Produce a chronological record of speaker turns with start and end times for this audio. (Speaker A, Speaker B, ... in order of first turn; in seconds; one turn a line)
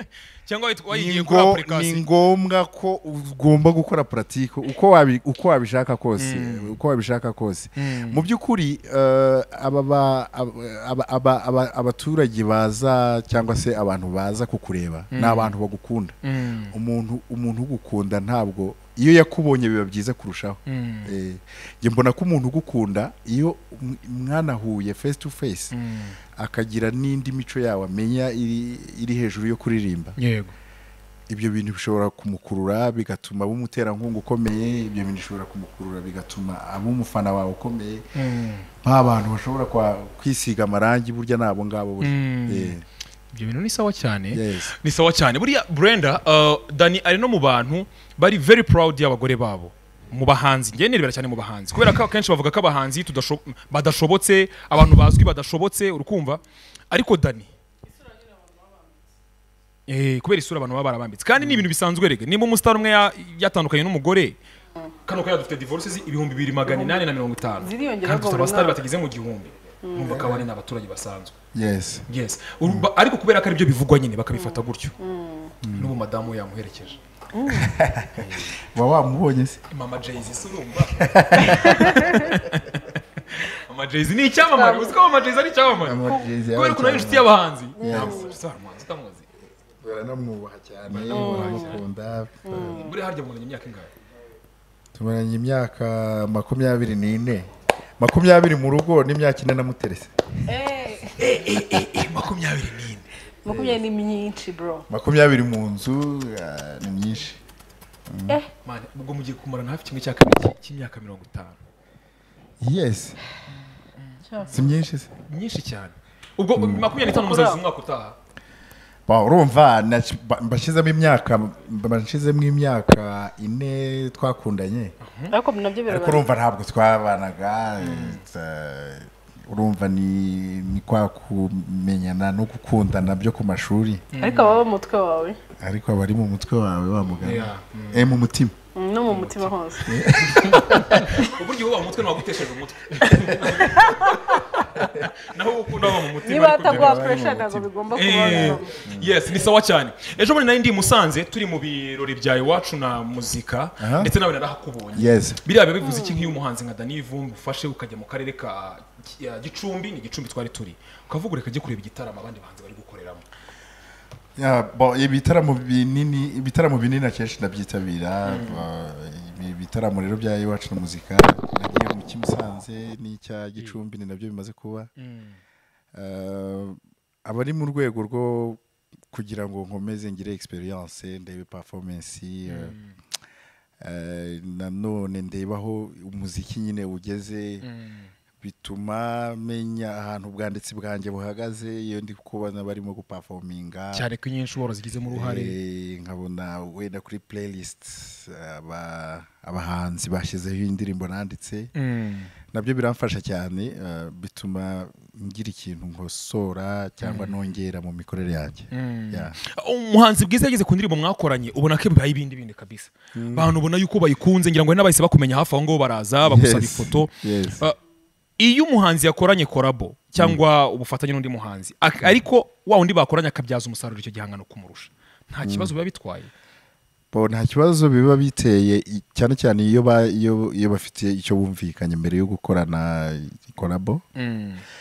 Speaker A: 0.5-2.0
Speaker B: 0.9-16.1
Speaker A: 6.2-6.8
Speaker A: 7.8-8.2
Speaker A: 15.1-15.5
Speaker A: 16.2-16.7
Speaker B: 16.7-25.7
Speaker A: 20.7-21.1
Speaker A: 25.7-26.2
Speaker B: 26.4-30.2
Speaker A: 30.2-30.5
Speaker B: 31.3-38.0
Speaker A: 38.1-38.7
Speaker B: 38.8-42.8
Speaker A: 42.0-42.7
Speaker A: 43.3-57.5
Speaker B: 44.3-44.7
Speaker A: 59.9-64.4
Speaker B: 61.4-61.7
Speaker A: 65.0-71.3
Speaker C: 66.7-67.0
Speaker C: 67.6-68.8
Speaker C: 69.8-70.2
Speaker B: 70.0-70.5
Speaker B: 71.5-72.0
Speaker A: 72.1-75.0
Speaker C: 74.3-75.5
Speaker B: 75.6-75.9
Speaker A: 75.7-77.0
Speaker C: 77.3-77.7
Speaker B: 77.5-79.6
Speaker A: 78.2-78.5
Speaker A: 79.7-89.2
Speaker B: 81.0-82.2
Speaker C: 81.6-82.3
Speaker C: 84.5-85.0
Speaker B: 85.8-87.3
Speaker C: 86.0-86.3
Speaker C: 87.8-88.3
Speaker B: 87.8-88.3
Speaker B: 89.8-92.8
Speaker A: 90.9-91.8
Speaker C: 91.0-91.8
Speaker C: 92.4-92.9
Speaker A: 92.5-93.9
Speaker B: 94.9-97.5
Speaker B: 98.0-100.1
Speaker C: 100.5-101.4
Speaker A: 101.2-103.1
Speaker C: 103.4-104.8
Speaker B: 103.5-103.8
Speaker B: 104.9-107.4
Speaker B: 108.1-108.4
Speaker A: 108.6-111.6
Speaker B: 112.6-113.2
Speaker A: 114.0-114.6
Speaker C: 114.3-114.5
Speaker B: 114.5-115.1
Speaker A: 115.3-118.2
Speaker B: 116.6-116.9
Speaker C: 117.0-117.6
Speaker B: 119.1-124.9
Speaker A: 125.0-125.3
Speaker C: 125.3-126.2
Speaker B: 125.9-134.0
Speaker A: 127.8-128.2
Speaker A: 134.1-134.6
Speaker C: 134.2-135.4
Speaker B: 135.6-138.5
Speaker A: 137.2-138.1
Speaker C: 138.7-139.9
Speaker A: 139.1-139.5
Speaker B: 139.8-141.2
Speaker A: 140.3-147.2
Speaker C: 143.0-144.2
Speaker B: 143.1-143.4
Speaker B: 144.8-145.1
Speaker C: 146.2-148.7
Speaker B: 146.6-149.2
Speaker A: 147.9-163.2
Speaker B: 153.8-154.1
Speaker B: 154.9-155.4
Speaker C: 155.8-156.3
Speaker B: 164.4-174.9
Speaker A: 168.2-168.7
Speaker A: 175.0-175.4
Speaker B: 175.9-178.6
Speaker B: 179.1-182.7
Speaker A: 182.5-182.9
Speaker B: 183.8-187.6
Speaker A: 187.6-188.1
Speaker B: 188.4-194.1
Speaker A: 193.9-195.6
Speaker B: 195.1-201.7
Speaker A: 201.7-202.3
Speaker B: 202.5-209.4
Speaker A: 207.0-207.5
Speaker A: 208.7-217.8
Speaker B: 213.1-213.5
Speaker B: 216.2-217.6
Speaker A: 218.4-226.3
Speaker B: 225.4-225.7
Speaker B: 227.1-234.0
Speaker A: 234.2-234.6